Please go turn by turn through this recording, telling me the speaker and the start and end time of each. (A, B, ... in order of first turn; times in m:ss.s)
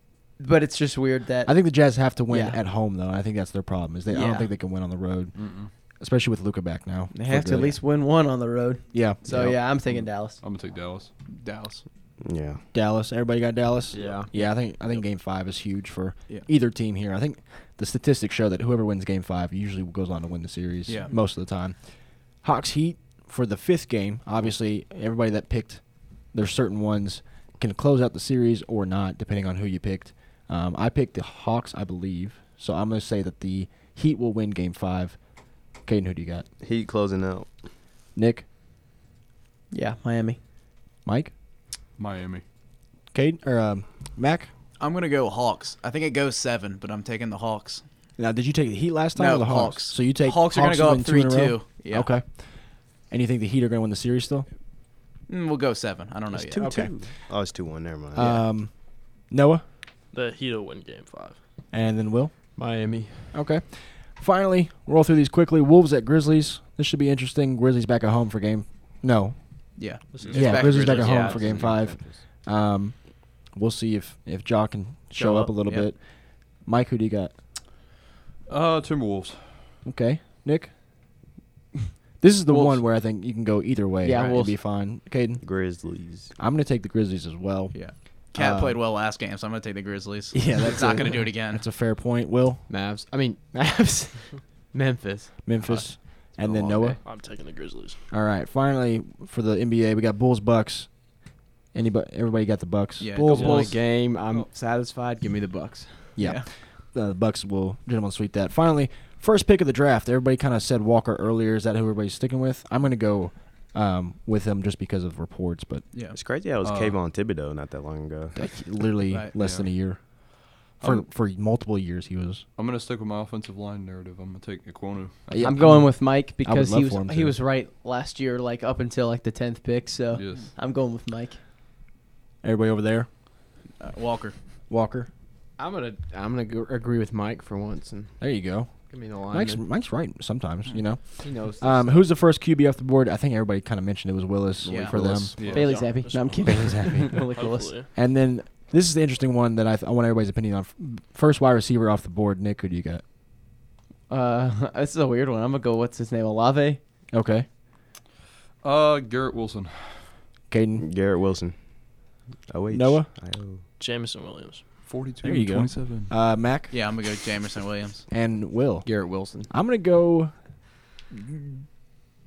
0:00.4-0:01.5 A
0:01.4-0:07.8 B
0:02.3-0:02.6 A
0:04.1-0:04.5 A
0:05.3-0:05.7 C
0:07.1-0:10.4 A
0:08.9-0:09.6 B
0:09.6-0:11.1 C
0:11.3-0:11.8 D
0:12.2-0:12.6 E
0:12.7-0:21.8 B
0:13.9-0:14.3 F
0:22.4-0:35.2 B
0:35.8-0:36.4 B
0:36.6-0:37.5 E
0:38.2-0:38.4 B
0:39.7-0:40.4 A
0:41.0-0:41.3 B
0:42.0-0:42.4 C
0:43.1-0:44.5 B
0:44.8-0:47.8 D
0:48.2-0:52.4 B
0:49.2-0:52.1 D
0:53.1-0:54.5 B
0:55.3-0:56.8 D
0:56.3-0:58.4 E
0:56.6-0:56.9 B
0:58.1-0:59.6 B
1:00.1-1:01.4 G
1:01.7-1:02.8 B
1:02.6-1:03.3 F
1:03.3-1:16.0 B
1:09.8-1:11.7 D
1:10.1-1:10.5 G
1:10.2-1:12.2 F
1:15.2-1:15.9 D
1:16.6-1:17.3 B
1:18.5-1:19.7 C
1:19.8-1:20.7 B
1:22.2-1:25.4 B
1:24.0-1:24.5 A
1:25.4-1:26.3 E
1:26.4-1:28.8 B
1:27.7-1:31.6 D
1:30.3-1:32.7 B
1:32.7-1:35.5 F
1:35.4-1:37.0 B
1:36.3-1:37.0 F
1:37.0-1:38.0 G
1:38.1-1:41.1 B
1:41.7-1:43.7 B
1:43.0-1:43.7 D
1:43.2-1:46.2 F
1:43.3-1:43.7 G
1:46.2-1:55.8 B
1:46.2-1:46.5 D
1:56.1-1:58.4 E
1:56.6-1:57.0 C
1:58.3-2:02.4 B
1:59.3-1:59.7 C
2:00.8-2:01.0 C
2:02.6-2:05.8 C
2:05.3-2:07.3 B
2:05.4-2:11.4 A
2:10.1-2:10.5 C
2:12.4-2:13.1 B
2:13.8-2:14.4 D
2:14.7-2:15.1 B
2:15.6-2:18.4 F
2:18.2-2:25.5 B
2:18.9-2:19.6 F
2:21.2-2:22.1 F
2:24.6-2:26.9 F
2:24.6-2:24.9 D
2:25.2-2:25.8 C
2:25.4-2:27.8 A
2:25.7-2:27.9 G
2:26.4-2:27.2 B
2:27.9-2:33.0 B
2:34.1-2:36.8 A
2:37.1-2:37.5 B
2:38.6-2:40.1 C
2:40.5-2:40.8 B
2:40.8-2:41.6 E
2:42.5-2:43.6 E
2:42.7-2:43.1 B
2:43.8-2:44.7 G
2:44.8-2:46.1 C
2:45.2-2:46.7 B
2:46.7-2:48.0 D
2:48.1-2:50.3 B
2:48.8-2:49.5 F
2:51.1-2:51.6 B